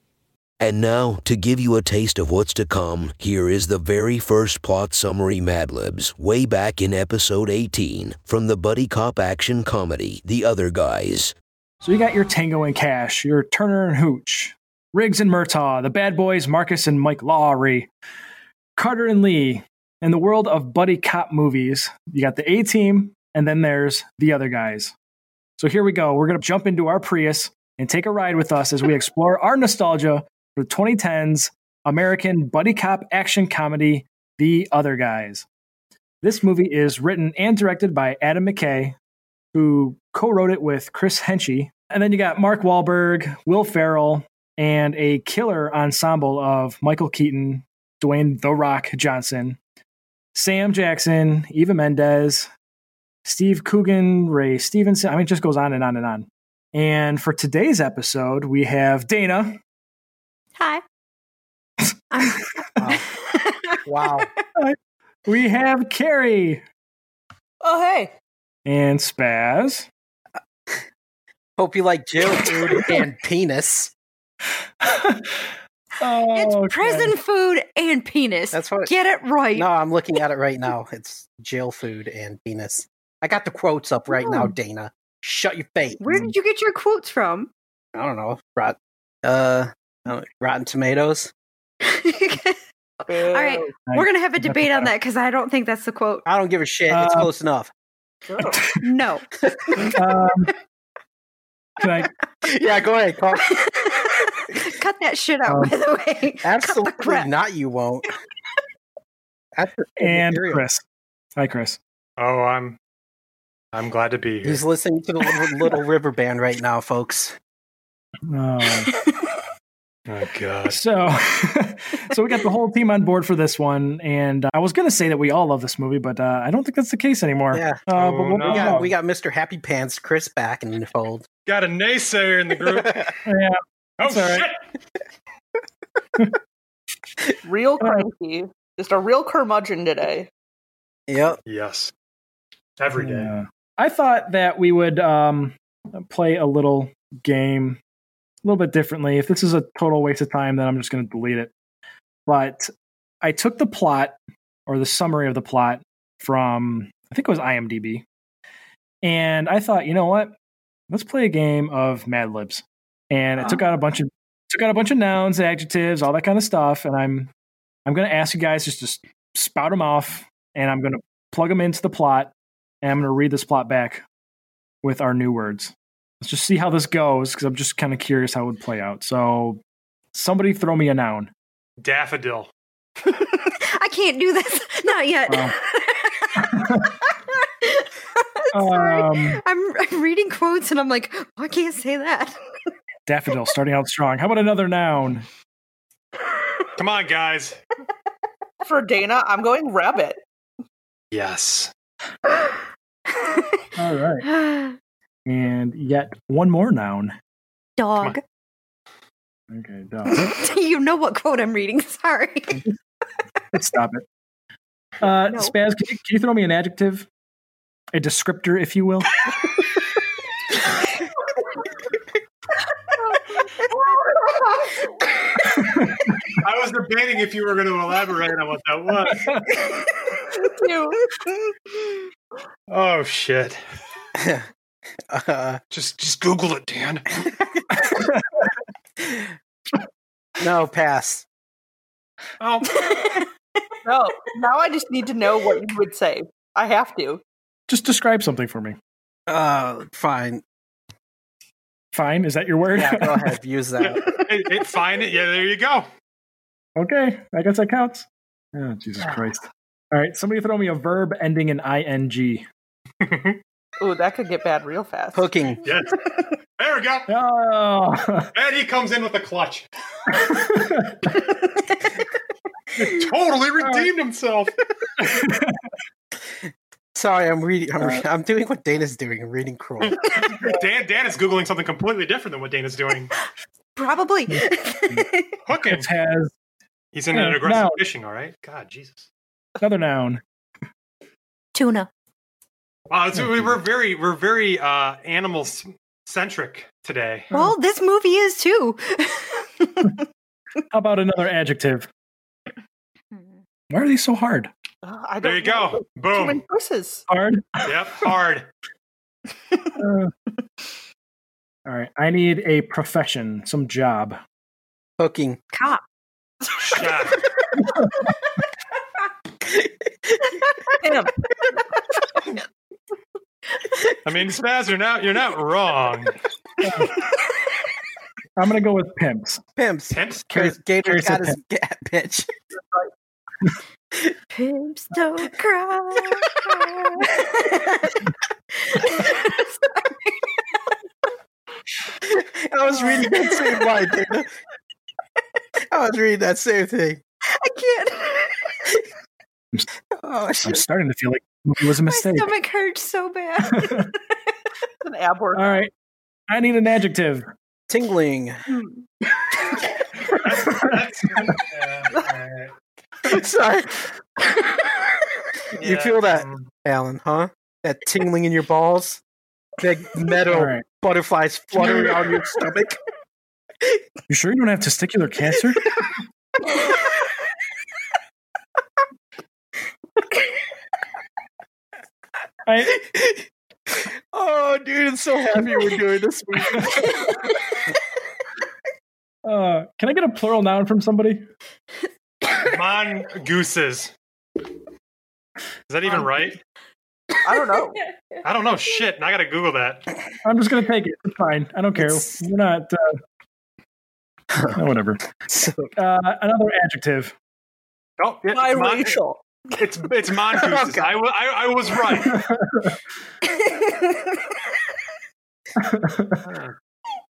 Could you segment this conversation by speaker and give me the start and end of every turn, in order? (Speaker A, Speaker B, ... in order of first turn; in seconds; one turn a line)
Speaker A: 0.6-11.3
Speaker B: 11.8-17.9
Speaker B: 18.8-24.9
Speaker B: 25.6-35.5
Speaker B: 36.2-39.0
Speaker B: 39.5-49.6
Speaker B: 50.3-52.5
Speaker B: 53.2-59.6
Speaker C: 62.1-63.8
Speaker D: 63.9-64.3
Speaker B: 64.5-66.6
Speaker E: 67.6-68.1
Speaker B: 68.6-69.9
Speaker D: 71.6-73.9
Speaker B: 74.8-75.3
Speaker B: 76.0-77.1
Speaker C: 76.3-79.7
Speaker D: 78.5-78.9
Speaker D: 79.5-86.1
Speaker C: 84.1-84.5
Speaker C: 86.0-87.5
Speaker B: 86.1-86.3
Speaker D: 87.9-91.3
Speaker C: 91.8-96.2
Speaker E: 93.1-93.8
Speaker B: 93.9-94.9
Speaker D: 96.2-97.7
Speaker B: 96.9-97.3
Speaker E: 98.3-98.7
Speaker B: 98.5-98.8
Speaker C: 98.8-99.3
Speaker B: 99.9-100.5
Speaker B: 101.8-102.1
Speaker D: 102.4-103.6
Speaker C: 103.5-107.3
Speaker B: 105.5-105.7
Speaker D: 106.4-108.1
Speaker D: 109.5-110.6
Speaker B: 110.0-110.8
Speaker B: 111.3-111.8
Speaker F: 112.2-112.8
Speaker F: 113.7-114.6
Speaker D: 114.4-117.3
Speaker B: 118.3-118.9
Speaker C: 118.8-119.2
Speaker F: 120.1-120.8
Speaker B: 120.7-128.9
Speaker D: 127.5-127.8
Speaker F: 127.9-128.8
Speaker D: 128.4-131.2
Speaker F: 131.4-133.1
Speaker D: 132.7-133.1
Speaker B: 133.2-134.5
Speaker F: 134.0-134.6
Speaker E: 137.4-140.3
Speaker B: 137.8-138.1
Speaker D: 141.1-141.4
Speaker F: 141.5-141.9
Speaker F: 142.8-143.3
Speaker B: 143.0-147.8
Speaker B: 148.4-151.5
Speaker B: 152.3-152.7
Speaker B: 153.2-158.0
Speaker B: 159.0-160.3
Speaker B: 160.9-167.3
Speaker B: 167.8-174.0
Speaker B: 174.8-179.6
Speaker B: 180.1-181.3
Speaker F: 181.8-182.5
Speaker C: 183.0-192.4
Speaker B: 185.3-185.6
Speaker B: 186.4-186.9
Speaker B: 188.5-189.4
Speaker B: 193.1-195.2
Speaker F: 196.8-197.6
Speaker E: 198.6-200.2
Speaker F: 201.1-201.7
Speaker C: 203.1-203.6
Speaker B: 203.8-204.3
Speaker C: 204.2-204.8
Speaker B: 205.2-207.2
Speaker C: 207.8-208.2
Speaker B: 209.5-210.2
Speaker C: 210.1-212.6
Speaker B: 213.5-214.1
Speaker B: 215.0-217.1
Speaker B: 217.9-219.2
Speaker E: 223.1-224.8
Speaker B: 225.6-225.9
Speaker F: 226.4-229.4
Speaker B: 229.1-229.5
Speaker E: 230.2-231.5
Speaker F: 232.7-233.6
Speaker D: 234.2-234.4
Speaker D: 235.1-235.6
Speaker F: 235.7-237.2
Speaker D: 239.0-239.3
Speaker D: 240.4-241.2
Speaker F: 242.4-242.8
Speaker C: 242.7-243.7
Speaker E: 243.8-247.2
Speaker B: 247.7-248.8
Speaker D: 249.3-250.4
Speaker B: 251.9-253.4
Speaker D: 252.7-254.0
Speaker F: 253.8-255.9
Speaker B: 256.8-262.4
Speaker F: 263.0-263.4
Speaker E: 263.8-265.3
Speaker D: 265.1-265.6
Speaker F: 265.6-267.1
Speaker B: 267.1-268.3
Speaker F: 268.3-269.6
Speaker B: 270.1-271.1
Speaker F: 272.8-274.5
Speaker B: 273.6-273.9
Speaker B: 275.0-275.5
Speaker D: 276.9-280.0
Speaker F: 279.8-283.1
Speaker C: 283.7-285.3
Speaker B: 284.4-285.0
Speaker F: 285.4-285.9
Speaker B: 285.6-286.3
Speaker F: 286.9-289.1
Speaker B: 287.1-287.8
Speaker B: 289.6-290.2
Speaker C: 291.5-291.9
Speaker F: 292.9-297.3
Speaker C: 297.3-300.0
Speaker B: 300.7-301.9
Speaker B: 303.7-304.5
Speaker E: 304.8-307.1
Speaker F: 305.2-306.4
Speaker B: 307.1-307.8
Speaker F: 307.6-308.5
Speaker B: 309.8-310.1
Speaker B: 311.6-314.2
Speaker D: 315.0-315.4
Speaker C: 315.5-315.8
Speaker F: 316.6-317.2
Speaker D: 319.4-320.3
Speaker E: 320.8-321.1
Speaker F: 324.0-326.1
Speaker B: 326.6-327.0
Speaker B: 328.4-329.4
Speaker D: 329.6-332.3
Speaker F: 329.9-330.2
Speaker B: 330.3-331.4
Speaker C: 334.3-340.7
Speaker D: 342.0-344.3
Speaker D: 345.7-347.0
Speaker C: 347.3-348.7
Speaker D: 350.0-350.6
Speaker B: 350.4-352.3
Speaker C: 351.8-354.3
Speaker E: 354.8-355.7
Speaker B: 355.3-355.7
Speaker B: 356.3-357.3
Speaker D: 357.7-358.3
Speaker F: 360.1-362.5
Speaker D: 363.0-363.9
Speaker F: 365.6-366.4
Speaker D: 365.6-369.0
Speaker D: 369.6-372.8
Speaker B: 370.3-370.6
Speaker B: 374.1-375.6
Speaker B: 382.4-382.8
Speaker D: 382.8-383.2
Speaker D: 383.8-386.9
Speaker C: 387.1-387.4
Speaker B: 389.2-391.2
Speaker F: 392.4-393.9
Speaker F: 395.7-396.4
Speaker E: 397.2-397.8
Speaker F: 398.2-399.9
Speaker B: 400.2-403.0
Speaker D: 401.8-402.2
Speaker B: 404.5-405.0
Speaker D: 405.3-405.7
Speaker B: 405.8-407.1
Speaker F: 408.0-412.2
Speaker E: 408.3-409.2
Speaker D: 410.4-410.9
Speaker B: 412.0-412.7
Speaker C: 413.4-413.9
Speaker B: 415.6-416.2
Speaker F: 416.2-416.6